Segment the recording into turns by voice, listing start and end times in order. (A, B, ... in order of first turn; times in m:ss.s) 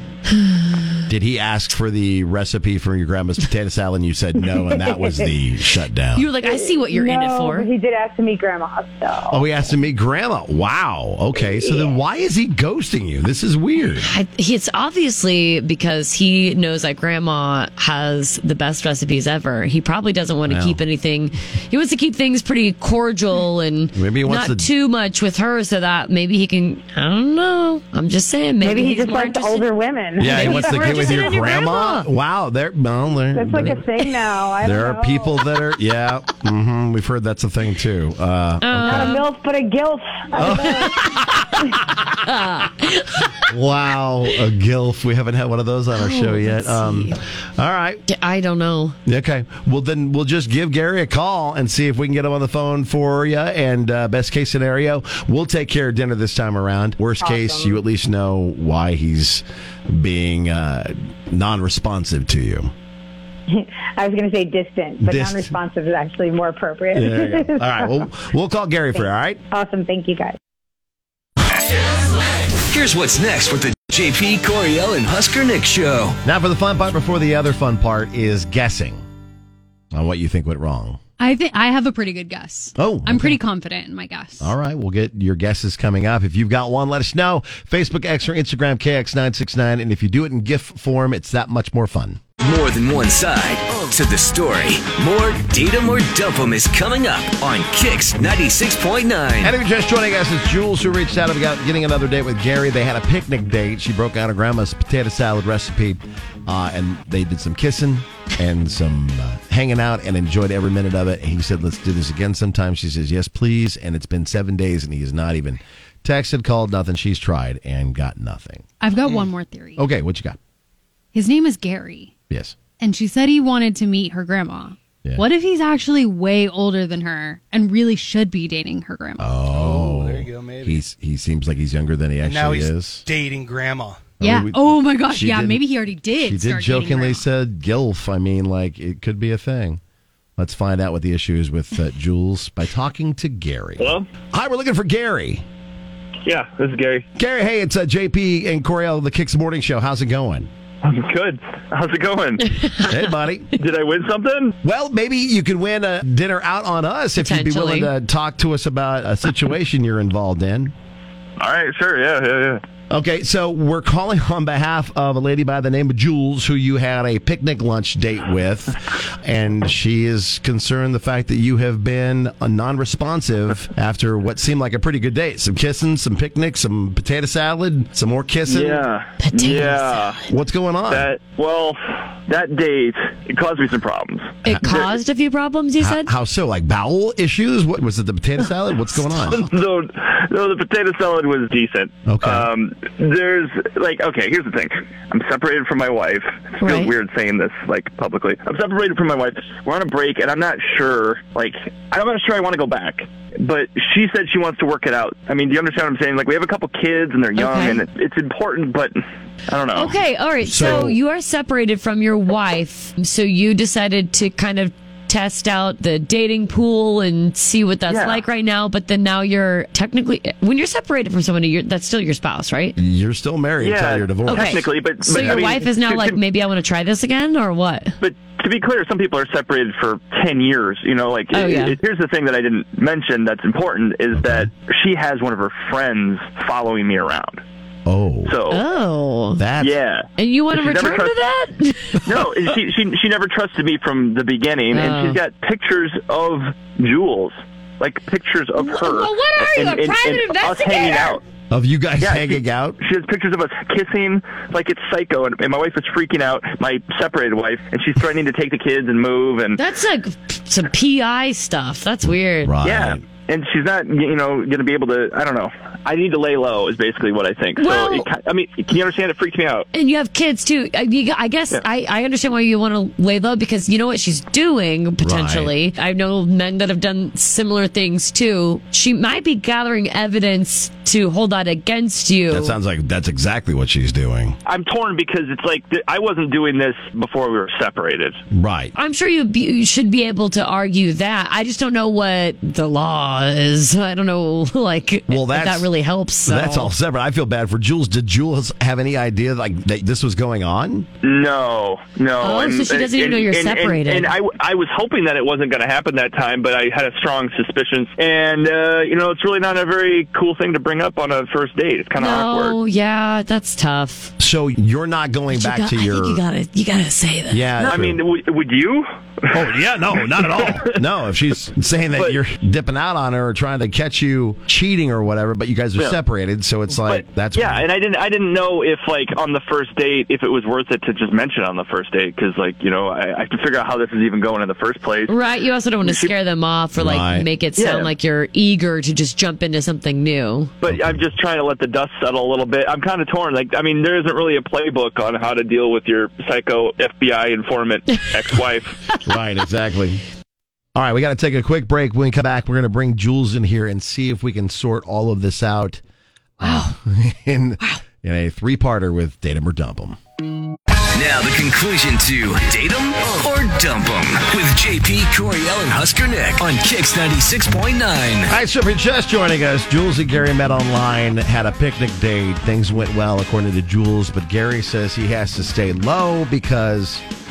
0:00.3-0:01.0 A
0:01.1-0:06.3 B
0:04.8-0:05.3 C
0:06.1-0:07.7 A
0:06.4-0:09.5 C
0:09.3-0:14.1 B
0:11.4-0:11.9 C
0:14.0-0:29.7 A
0:20.5-0:20.8 B
0:23.9-0:24.7 B
0:28.6-0:31.3 C
0:30.2-0:33.8 B
0:30.3-0:32.1 A
0:33.3-0:35.4 C
0:34.6-0:39.2 B
0:38.6-0:39.3 A
0:38.9-0:41.0 C
0:40.4-0:42.1 B
0:42.2-0:43.5 A
0:43.5-0:48.0 B
0:45.9-0:47.2 A
0:48.1-0:49.0 A
0:49.1-1:02.7 B
0:57.2-0:57.8 C
1:03.5-1:08.0 C
1:05.0-1:05.6 B
1:06.9-1:09.4 B
1:09.5-1:10.4 C
1:12.7-1:16.2 D
1:16.2-1:19.0 B
1:19.9-1:21.0 B
1:21.2-1:24.5 E
1:22.8-1:23.4 B
1:24.4-1:32.2 B
1:32.4-1:39.6 D
1:39.4-1:58.6 B
1:58.8-1:59.8 E
1:59.8-2:00.4 B
2:01.1-2:02.1 E
2:02.3-2:02.6 B
2:02.8-2:09.3 E
2:09.2-2:13.1 B
2:09.5-2:10.8 F
2:12.2-2:14.1 F
2:14.2-2:19.8 B
2:14.2-2:17.2 E
2:20.4-2:25.4 B
2:23.8-2:24.1 G
2:26.2-2:27.1 G
2:27.2-2:30.5 B
2:30.8-2:32.5 G
2:32.5-2:33.1 A
2:32.9-2:33.5 B
2:33.6-2:34.6 G
2:34.6-2:40.7 B
2:37.2-2:37.9 A
2:41.4-2:42.6 G
2:42.9-2:58.9 B
2:58.5-3:00.2 G
2:59.2-3:00.2 A
3:00.3-3:01.1 B
3:00.9-3:04.9 G
3:04.4-3:06.1 A
3:04.5-3:04.8 B
3:05.8-3:09.5 B
3:09.2-3:30.0 G
3:12.0-3:12.5 B
3:16.6-3:16.9 A
3:27.4-3:27.8 A
3:29.7-3:42.8 A
3:30.4-3:31.0 B
3:37.9-3:38.2 G
3:42.8-3:44.6 B
3:43.6-3:46.2 G
3:44.3-3:48.0 A
3:45.1-3:45.5 B
3:48.0-3:57.4 G
3:51.3-3:51.8 A
3:54.1-3:54.5 B
3:57.9-3:58.4 B
3:58.3-3:58.6 G
3:58.5-3:59.5 A
3:59.4-3:59.7 B
3:59.6-4:01.1 G
4:00.2-4:02.0 A
4:02.0-4:11.2 G
4:02.0-4:02.4 B
4:04.7-4:05.2 A
4:11.5-4:12.8 B
4:12.0-4:19.6 G
4:19.6-4:22.5 A
4:22.0-4:23.0 B
4:22.6-4:29.7 G
4:27.6-4:28.1 A
4:29.7-4:42.6 A
4:35.0-4:35.5 B
4:42.3-4:44.4 B
4:44.4-4:48.2 G
4:48.3-4:48.8 B
4:48.8-4:56.7 A
4:55.1-4:55.7 B
4:56.2-5:00.9 B
5:01.0-5:12.6 G
5:02.2-5:04.1 A
5:12.0-5:14.1 A
5:14.2-5:16.2 B
5:15.3-5:17.6 A
5:17.3-5:18.0 B
5:17.6-5:20.8 G
5:19.3-5:27.6 B
5:26.7-5:35.1 G
5:35.1-5:40.6 A
5:35.8-5:36.1 G
5:36.8-5:37.3 B
5:37.6-5:37.9 G
5:40.6-5:48.8 G
5:40.6-5:41.1 B
5:49.0-5:50.0 B
5:50.8-5:55.8 B
5:56.4-6:00.0 B
5:56.4-5:56.7 A
6:00.9-6:08.3 D
6:08.3-6:17.0 B